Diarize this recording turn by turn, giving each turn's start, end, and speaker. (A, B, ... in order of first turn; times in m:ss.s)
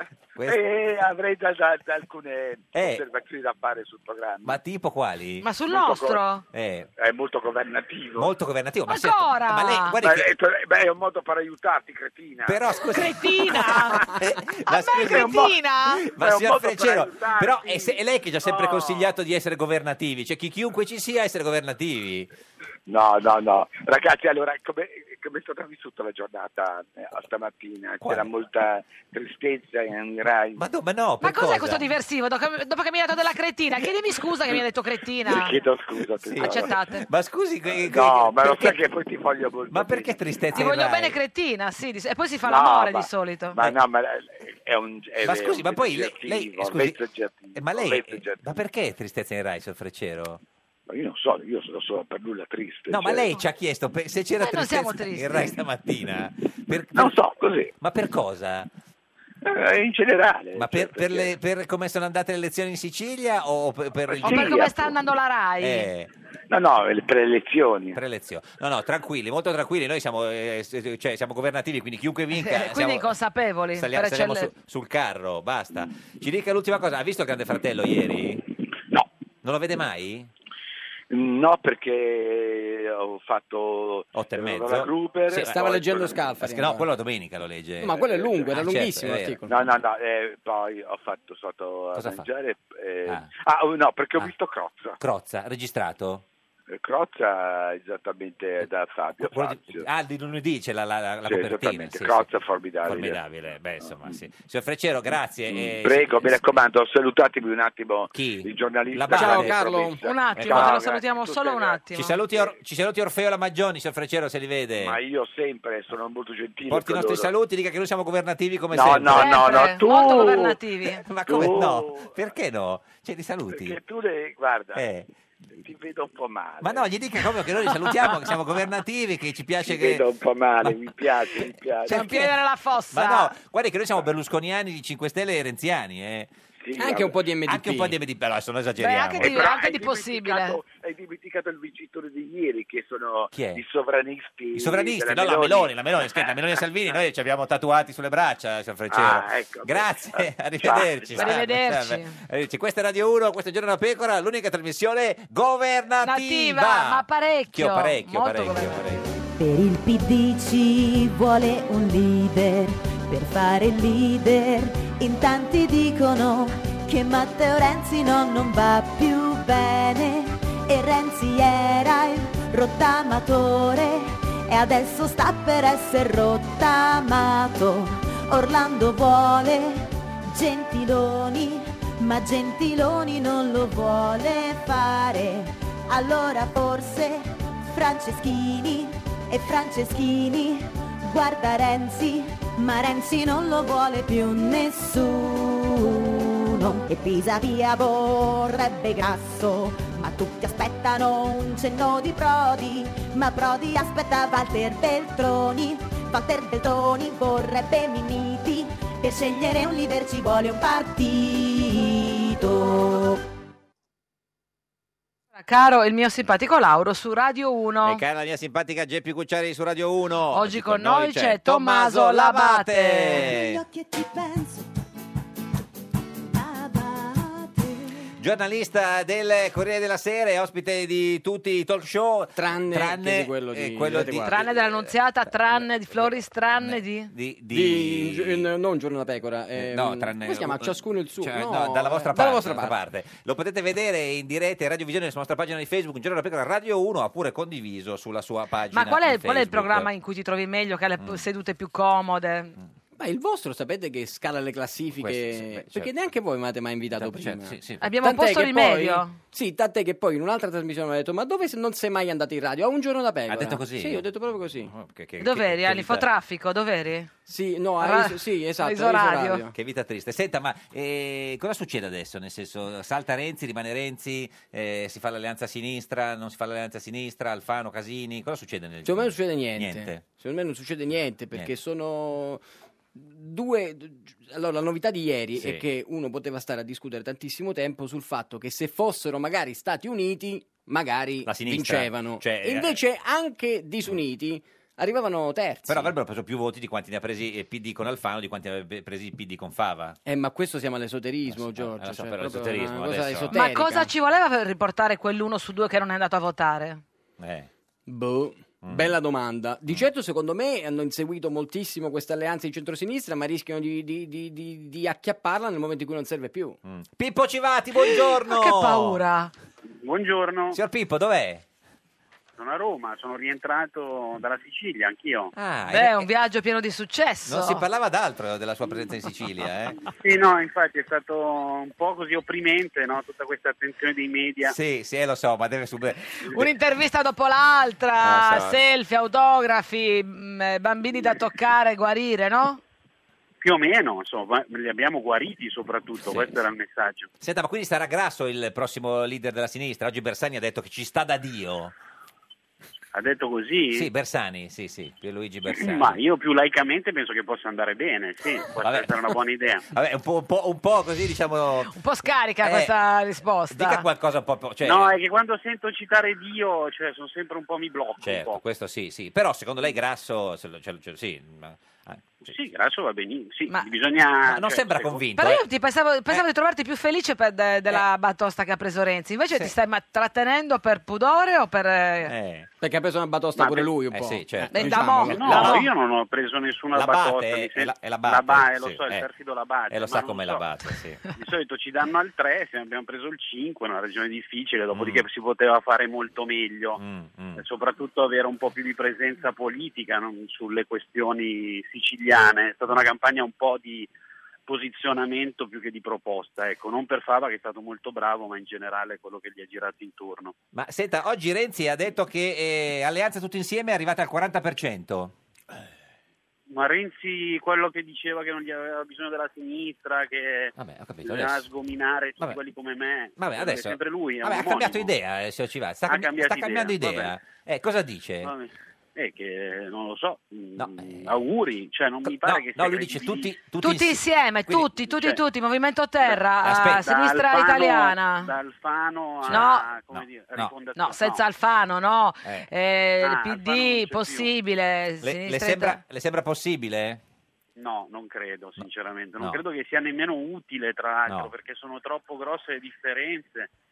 0:00.4-0:00.6 A
0:00.4-0:04.6 B
0:02.7-0:03.0 A
0:04.4-0:05.5 A
0:05.4-0:06.4 C
0:05.7-0:06.2 B
0:06.5-0:06.9 A
0:07.0-0:08.3 B
0:08.2-0:10.3 A
0:08.9-0:10.0 C
0:10.0-0:12.6 B
0:12.4-0:22.3 A
0:12.9-0:14.1 C
0:13.8-0:14.0 B
0:14.7-0:16.0 C
0:15.0-0:19.1 B
0:22.9-0:30.6 B
0:28.0-0:28.3 A
0:30.6-0:31.9 A
0:31.2-0:35.6 C
0:35.2-0:36.7 B
0:36.2-0:38.8 A
0:36.4-0:37.0 C
0:37.7-0:40.2 B
0:39.7-0:41.2 A
0:40.5-0:43.6 C
0:42.4-0:48.6 B
0:45.2-0:47.0 A
0:47.6-0:50.4 A
0:50.9-0:53.3 B
0:52.9-0:57.2 A
0:54.4-0:55.6 C
0:56.9-0:57.7 B
0:57.8-0:58.7 A
0:59.4-1:01.3 B
1:00.6-1:04.7 A
1:04.1-1:04.9 B
1:04.2-1:05.9 C
1:05.6-1:06.1 A
1:06.5-1:08.0 B
1:08.0-1:13.1 A
1:12.4-1:14.5 C
1:13.8-1:18.4 A
1:19.4-1:20.3 A
1:21.1-1:26.2 B
1:24.1-1:25.6 A
1:25.4-1:26.9 D
1:26.4-1:29.4 A
1:27.8-1:29.5 D
1:28.0-1:28.5 B
1:29.5-1:35.0 B
1:31.9-1:32.3 A
1:35.0-1:36.2 A
1:36.7-1:39.9 B
1:39.2-1:42.3 A
1:41.2-1:43.2 B
1:42.8-1:46.4 A
1:43.8-1:44.2 B
1:45.5-1:51.8 B
1:48.1-1:49.6 A
1:49.1-1:50.0 D
1:49.9-1:52.2 C
1:50.4-1:50.8 A
1:51.9-1:55.0 A
1:54.8-1:57.3 B
1:56.7-1:59.6 A
1:58.7-2:00.6 B
1:59.1-2:01.0 C
2:00.9-2:03.8 A
2:01.3-2:02.2 B
2:03.5-2:04.8 B
2:04.8-2:05.1 A
2:05.6-2:06.9 B
2:06.6-2:10.1 A
2:09.6-2:12.1 B
2:10.6-2:12.3 A
2:11.9-2:13.3 C
2:12.9-2:16.3 A
2:16.6-2:17.2 B
2:16.8-2:18.0 D
2:17.4-2:19.5 A
2:18.8-2:20.6 C
2:19.2-2:26.4 B
2:23.3-2:23.6 A
2:24.5-2:39.1 A
2:28.9-2:31.3 B
2:31.2-2:32.2 C
2:36.0-2:38.8 C
2:39.4-3:33.2 E
3:35.4-3:38.0 C
3:37.8-3:43.6 A
3:40.3-3:43.3 C
3:43.2-3:44.7 E
3:46.3-3:48.1 E
3:48.2-3:58.5 A
3:52.4-3:54.4 D
3:54.2-3:57.1 C
3:57.5-4:02.8 D
3:59.6-4:09.9 A
4:08.7-4:12.6 C
4:11.0-4:11.2 A
4:13.0-4:24.7 D
4:15.0-4:15.9 A
4:16.9-4:17.9 A
4:17.8-4:19.2 C
4:23.3-4:26.1 A
4:25.2-4:27.1 C
4:27.3-4:29.5 D
4:27.8-4:29.4 C
4:29.5-4:40.0 A
4:38.8-4:42.4 D
4:43.0-4:55.9 D
4:45.4-4:45.6 A
4:51.2-4:52.8 A
4:55.7-5:00.0 A
5:00.0-5:03.9 D
5:01.3-5:03.4 A
5:03.3-5:06.8 C
5:07.2-5:07.5 A
5:07.9-5:16.6 D
5:08.6-5:09.0 A
5:16.6-5:19.0 A
5:17.9-5:19.3 C
5:19.8-5:20.6 F
5:20.5-5:21.4 A
5:22.4-5:25.3 F
5:25.4-5:26.1 A
5:25.7-5:27.6 C
5:27.3-5:29.8 A
5:29.9-5:34.6 F
5:34.4-5:36.5 A
5:36.3-5:42.6 C
5:38.0-5:38.6 A
5:43.4-5:47.1 F
5:46.0-5:46.4 A
5:47.2-5:51.7 A
5:52.9-5:53.9 F
5:53.7-5:56.0 A
5:55.5-5:59.7 F
5:58.6-5:59.1 A
5:59.7-6:01.8 A
6:01.7-6:03.8 C
6:02.4-6:02.8 A
6:03.5-6:05.0 A
6:04.6-6:08.4 F
6:08.0-6:12.3 A
6:12.2-6:15.0 F
6:14.3-6:15.4 A
6:15.2-6:22.1 C
6:22.0-6:22.5 A
6:22.6-6:25.6 D
6:23.9-6:25.7 A
6:24.5-6:25.6 C
6:25.1-6:30.4 F
6:26.7-6:29.1 A
6:29.7-6:31.0 A
6:31.1-6:36.8 F
6:34.7-6:35.1 A
6:36.8-6:37.4 A
6:37.4-6:43.9 F
6:44.5-6:50.3 F
6:50.5-6:55.1 A
6:56.5-7:04.9 F
7:00.6-7:01.5 A
7:03.2-7:08.3 A
7:05.9-7:07.1 F
7:08.2-7:13.3 F
7:10.6-7:11.1 A
7:12.0-7:15.0 A
7:13.6-7:18.3 C
7:16.0-7:21.2 F
7:16.4-7:16.9 A
7:19.2-7:20.5 A
7:19.3-7:19.7 C
7:20.8-7:25.8 C
7:23.0-7:24.3 F
7:25.0-7:27.0 A
7:27.6-7:33.5 F